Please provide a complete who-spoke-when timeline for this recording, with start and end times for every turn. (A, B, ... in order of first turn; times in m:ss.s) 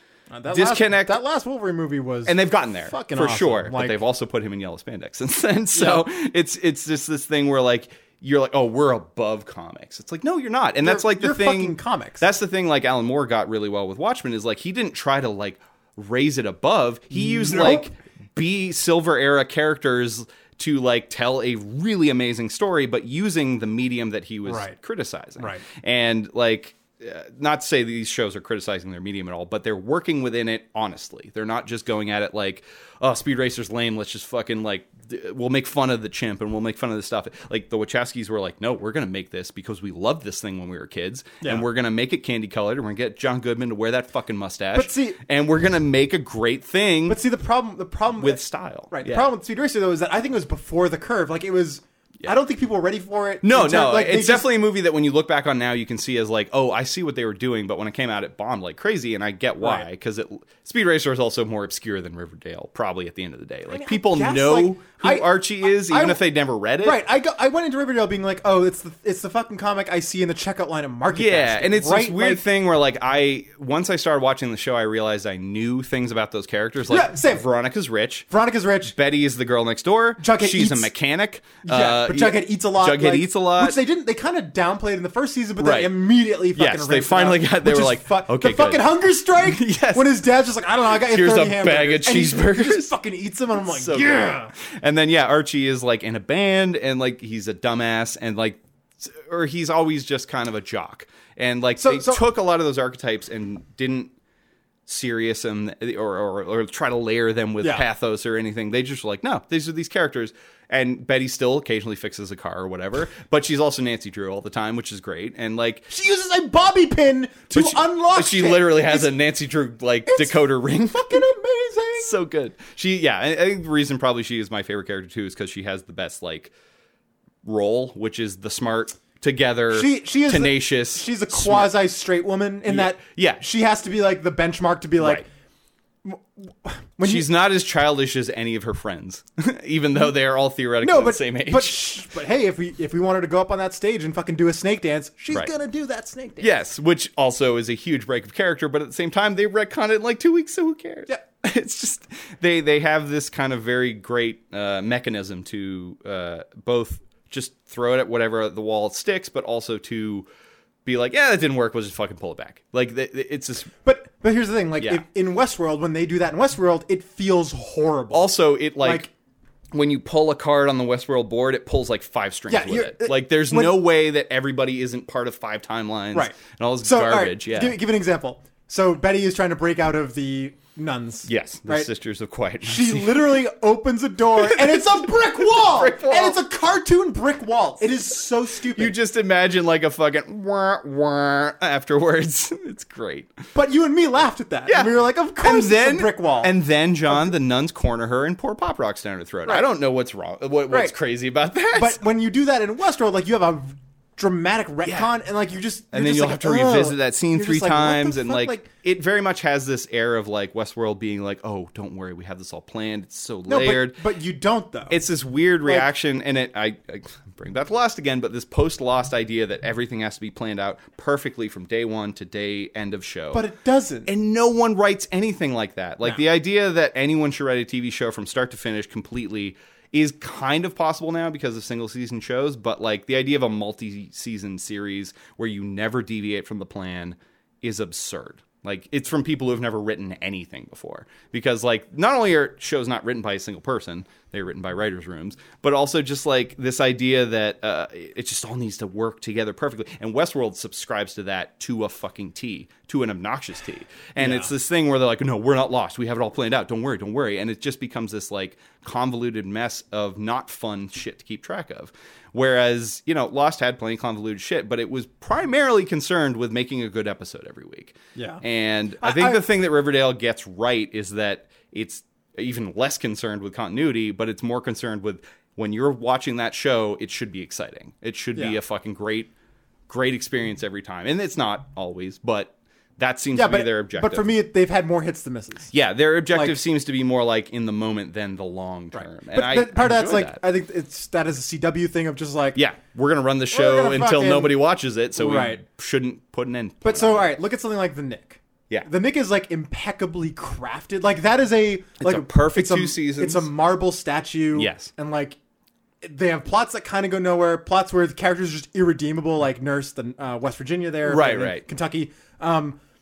0:00.3-0:04.0 A
0:00.5-0:01.2 B
0:02.3-0:47.2 B
0:05.7-0:06.0 A
0:10.8-0:12.2 A
0:17.1-0:17.9 A
0:24.5-0:24.8 A
0:25.4-0:25.6 A
0:44.7-0:45.2 A
0:47.1-0:54.5 A
0:48.2-0:49.3 B
0:53.4-1:07.0 B
0:59.6-0:59.9 A
1:03.7-1:06.2 A
1:06.8-1:12.4 A
1:11.1-1:18.3 B
1:16.9-1:17.4 A
1:18.3-1:18.9 A
1:18.8-1:23.8 B
1:20.2-1:20.9 A
1:21.6-1:34.5 A
1:25.6-1:26.0 B
1:26.5-1:30.2 B
1:31.0-1:32.9 B
1:33.6-1:44.1 B
1:41.8-1:42.2 A
1:44.9-1:55.9 B
1:47.6-1:47.9 A
1:55.9-1:59.1 A
1:57.5-2:01.2 B
2:00.1-2:02.2 A
2:02.0-2:06.5 B
2:07.4-2:11.8 B
2:09.7-2:15.3 A
2:12.7-2:13.4 B
2:15.0-2:15.2 B
2:16.0-2:17.3 A
2:17.0-2:21.8 B
2:20.8-2:26.5 A
2:26.4-2:40.3 B
2:40.8-2:43.7 B
2:43.8-2:49.1 A
2:48.1-2:49.1 B
2:49.7-2:57.8 B
2:52.5-2:53.8 A
2:56.1-3:01.9 A
3:01.3-3:03.4 B
3:02.6-3:09.0 A
3:04.4-3:06.4 B
3:08.7-3:13.3 B
3:13.6-3:16.5 A
3:14.7-3:22.0 B
3:21.7-3:28.7 A
3:24.8-3:25.1 B
3:25.9-3:34.0 B
3:33.5-3:35.0 A
3:34.9-3:43.4 B
3:43.3-3:44.1 A
3:44.1-4:39.3 B
4:14.2-4:14.5 A
4:28.2-4:28.4 A
4:29.0-4:29.4 A
4:39.9-4:44.3 B
4:43.3-4:45.7 A
4:45.7-4:50.4 B
4:46.3-4:46.6 A
4:48.9-4:52.6 A
4:52.6-4:57.3 B
4:53.5-4:54.6 A
4:55.2-4:55.6 A
4:56.8-5:05.4 A
5:02.0-5:03.5 B
5:04.6-5:04.9 B
5:06.0-5:12.8 A
5:11.0-5:11.6 B